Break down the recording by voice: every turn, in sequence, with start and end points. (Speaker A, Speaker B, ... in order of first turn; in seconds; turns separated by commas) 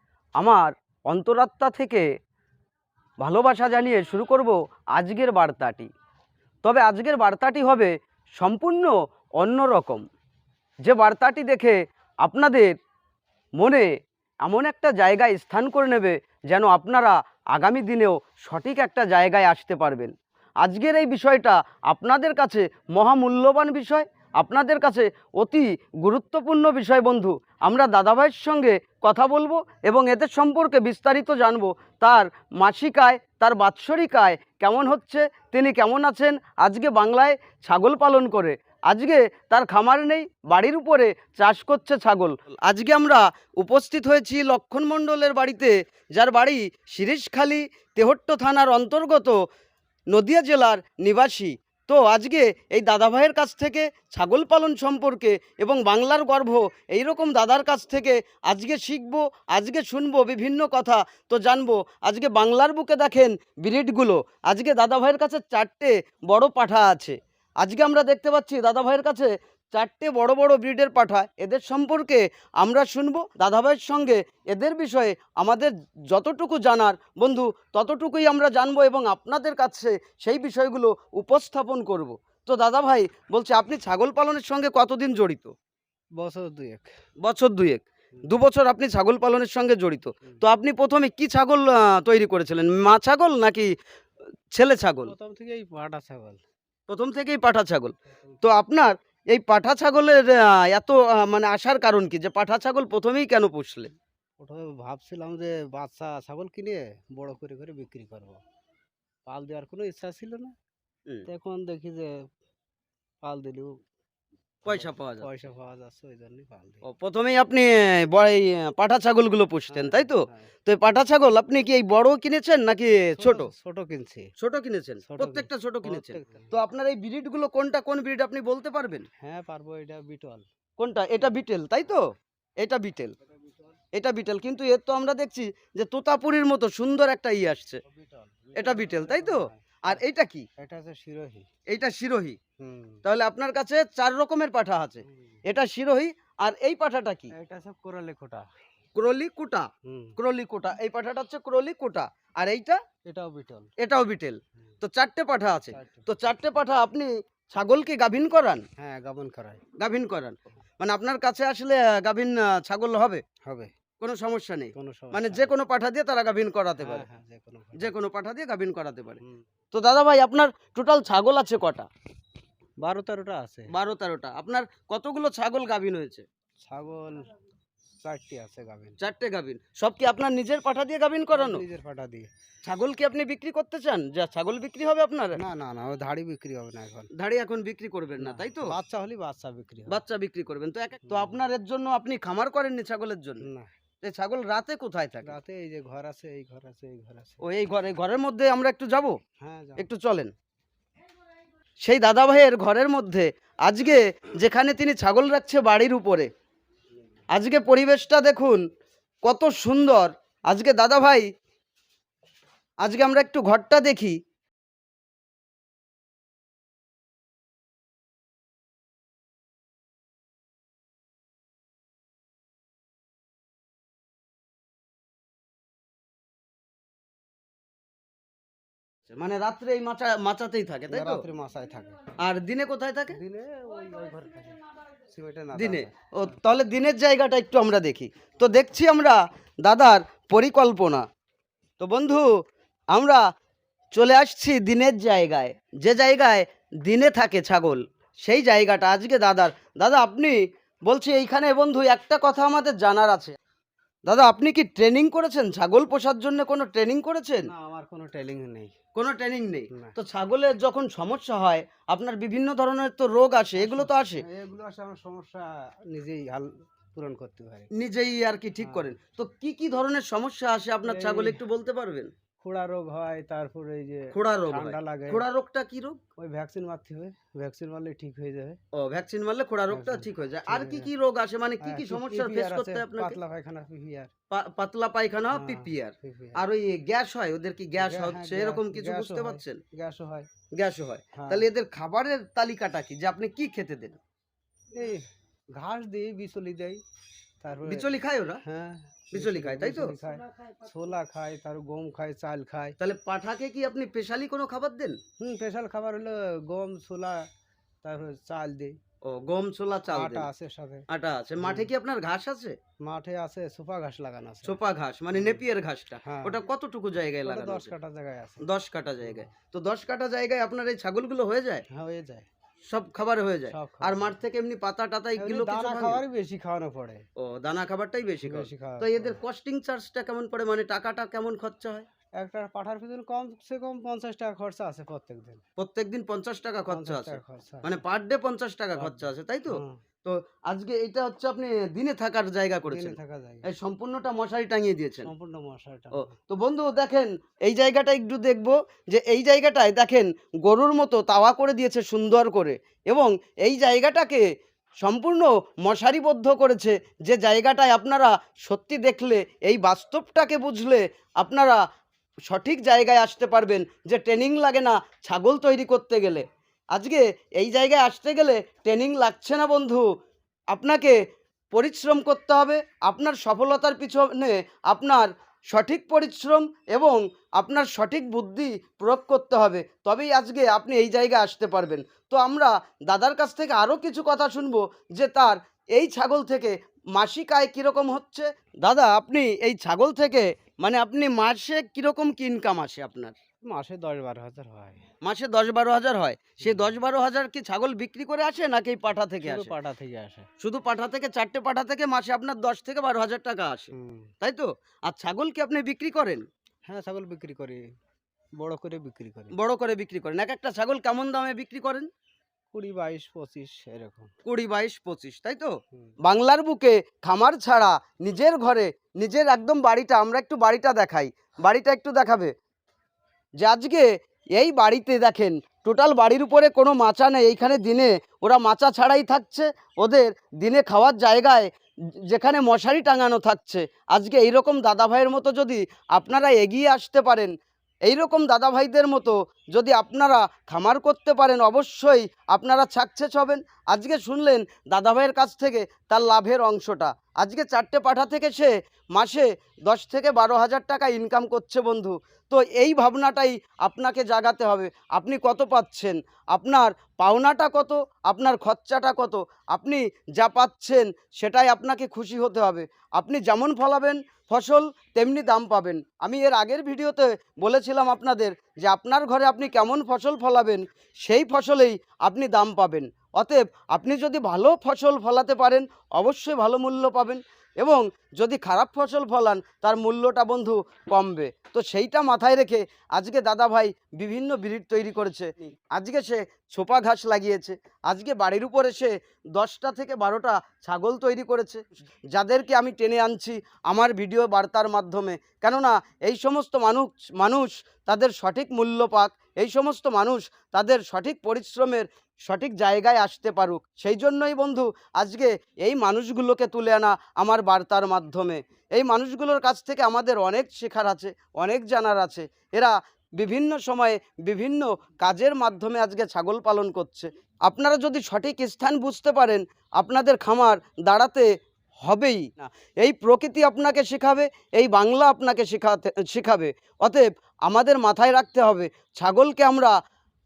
Speaker A: 0.4-2.0, Speaker A: 3.2-5.9, Speaker A: 6.6-10.0, Speaker A: 10.8-12.7, Speaker A: 13.6-13.9, Speaker A: 14.4-49.4, Speaker A: 50.1-85.5, Speaker B: 86.2-86.9, Speaker A: 87.2-93.7, Speaker A: 94.5-95.1, Speaker B: 95.0-96.4, Speaker A: 96.9-103.9, Speaker B: 104.4-108.4, Speaker B: 109.3-110.5, Speaker B: 111.3-112.3, Speaker B: 113.2-113.7, Speaker A: 114.6-115.3, Speaker B: 114.7-116.8, Speaker A: 116.8-123.5, Speaker B: 119.7-120.5, Speaker B: 123.2-124.3, Speaker A: 124.4-129.1, Speaker B: 125.0-126.5, Speaker B: 129.2-130.5, Speaker A: 130.8-132.1, Speaker A: 132.6-133.1, Speaker A: 133.9-137.8, Speaker B: 137.8-140.0, Speaker A: 138.5-140.5, Speaker B: 140.6-141.5, Speaker A: 141.7-142.4, Speaker B: 142.6-143.0, Speaker A: 143.0-147.3, Speaker B: 145.1-145.3, Speaker B: 147.3-148.4, Speaker A: 148.9-152.8, Speaker B: 149.8-150.2, Speaker B: 153.1-153.7, Speaker A: 153.8-158.7, Speaker B: 155.7-156.1, Speaker B: 158.8-159.6, Speaker A: 159.8-163.2, Speaker B: 163.4-163.7, Speaker A: 164.0-167.1, Speaker B: 164.7-165.5, Speaker B: 166.8-167.9, Speaker A: 167.8-169.2, Speaker A: 169.7-171.9, Speaker B: 172.8-173.7, Speaker A: 173.7-176.2, Speaker B: 176.6-177.3, Speaker B: 178.0-179.0, Speaker A: 179.0-181.6, Speaker B: 181.3-182.3, Speaker A: 182.6-185.4, Speaker B: 185.3-187.1, Speaker A: 187.1-188.8, Speaker B: 188.2-190.0, Speaker A: 189.9-193.5, Speaker B: 191.1-191.4, Speaker B: 193.4-193.7, Speaker A: 194.0-195.3, Speaker B: 195.2-197.4, Speaker A: 197.4-199.2, Speaker B: 199.4-199.9, Speaker A: 199.8-200.3, Speaker A: 201.8-206.3, Speaker A: 207.3-208.7, Speaker A: 209.2-211.3, Speaker A: 212.8-214.2, Speaker A: 229.1-231.2, Speaker B: 230.9-232.0, Speaker A: 232.2-233.2, Speaker B: 233.1-235.9, Speaker A: 235.5-241.1, Speaker A: 241.8-242.3, Speaker A: 242.9-243.2, Speaker A: 243.9-253.4, Speaker A: 254.1-257.5, Speaker B: 257.5-258.7, Speaker A: 258.9-264.2, Speaker B: 263.6-267.7, Speaker A: 267.7-272.1, Speaker B: 268.6-268.9, Speaker B: 270.8-271.4, Speaker B: 272.4-275.2, Speaker A: 274.1-276.0, Speaker B: 276.2-278.6, Speaker A: 278.7-283.2, Speaker B: 279.7-280.9, Speaker B: 281.6-284.1, Speaker A: 284.3-289.6, Speaker B: 285.3-286.4, Speaker B: 287.8-290.3, Speaker A: 290.5-294.0, Speaker B: 291.1-291.5, Speaker B: 294.7-296.8, Speaker B: 297.4-297.9, Speaker A: 297.6-298.4, Speaker B: 298.4-302.8, Speaker A: 299.1-299.9, Speaker A: 302.8-305.0, Speaker B: 305.2-307.3, Speaker B: 307.8-308.8, Speaker A: 309.0-310.3, Speaker B: 309.9-310.9, Speaker A: 310.9-312.6, Speaker B: 311.4-311.7, Speaker B: 312.8-314.6, Speaker A: 314.4-317.7, Speaker B: 315.1-315.4, Speaker B: 316.0-316.4, Speaker B: 317.2-318.5, Speaker A: 318.4-321.6, Speaker B: 321.7-322.3, Speaker A: 322.6-326.0, Speaker B: 323.5-324.1, Speaker B: 325.2-327.0, Speaker A: 327.2-331.9, Speaker B: 328.2-329.2, Speaker B: 332.2-335.4, Speaker A: 335.6-345.1, Speaker B: 336.7-337.8, Speaker B: 338.8-339.8, Speaker B: 342.6-343.4, Speaker B: 345.0-346.1, Speaker A: 345.9-354.2, Speaker A: 354.8-361.6, Speaker A: 362.3-369.9, Speaker A: 370.5-371.0, Speaker A: 371.5-393.1, Speaker B: 393.5-394.8, Speaker A: 395.0-399.5, Speaker B: 396.4-396.7, Speaker B: 399.2-400.3, Speaker A: 400.4-406.2, Speaker B: 403.7-404.1, Speaker B: 406.7-407.6, Speaker B: 408.4-409.3, Speaker A: 409.3-411.9, Speaker B: 412.5-414.1, Speaker A: 414.2-422.3, Speaker A: 423.4-431.5, Speaker A: 432.0-437.3, Speaker A: 437.9-521.3, Speaker A: 521.8-529.7